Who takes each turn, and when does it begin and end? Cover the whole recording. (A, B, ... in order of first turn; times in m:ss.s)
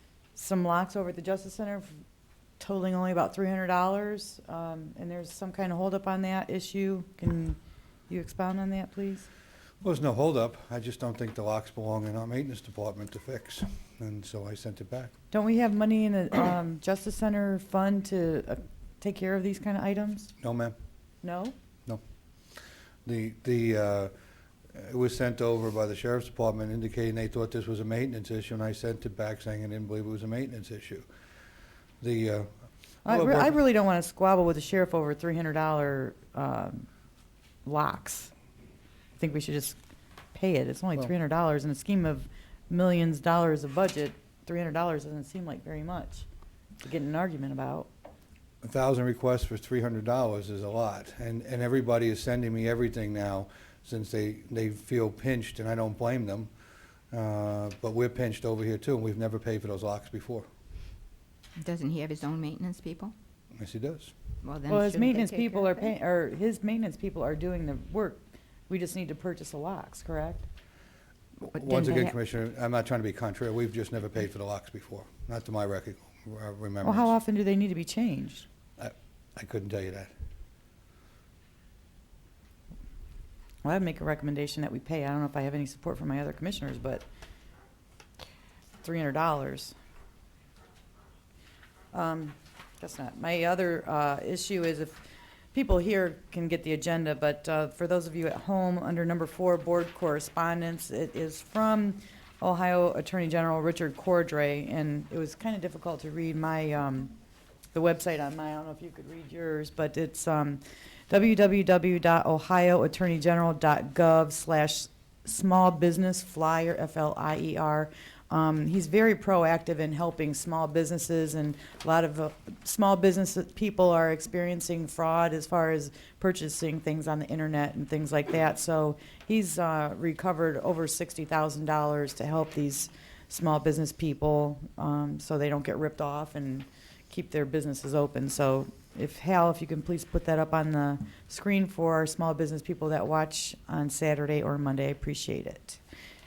0:00.4-0:01.9 A
0:02.6-0:07.6 A
0:08.1-0:09.3 A
0:09.8-0:15.1 B
0:15.3-0:20.3 A
0:20.4-0:20.8 B
0:21.2-0:21.6 A
0:23.0-0:24.1 B
0:24.7-0:31.1 B
0:32.0-0:32.5 B
0:33.0-0:33.6 B
0:33.0-0:36.9 A
0:37.6-0:38.3 A
0:39.2-0:39.8 A
0:40.3-0:46.3 A
0:46.8-0:47.9 A
0:48.6-0:56.5 B
0:57.1-1:00.5 B
1:01.6-1:03.1 C
1:03.5-1:04.1 B
1:04.4-1:05.9 C
1:04.7-1:10.5 A
1:11.4-1:17.1 B
1:11.5-1:12.2 C
1:16.8-1:18.5 A
1:18.8-1:20.1 B
1:23.6-1:27.0 A
1:28.8-1:29.8 A
1:31.9-1:47.2 A
1:47.7-2:25.8 A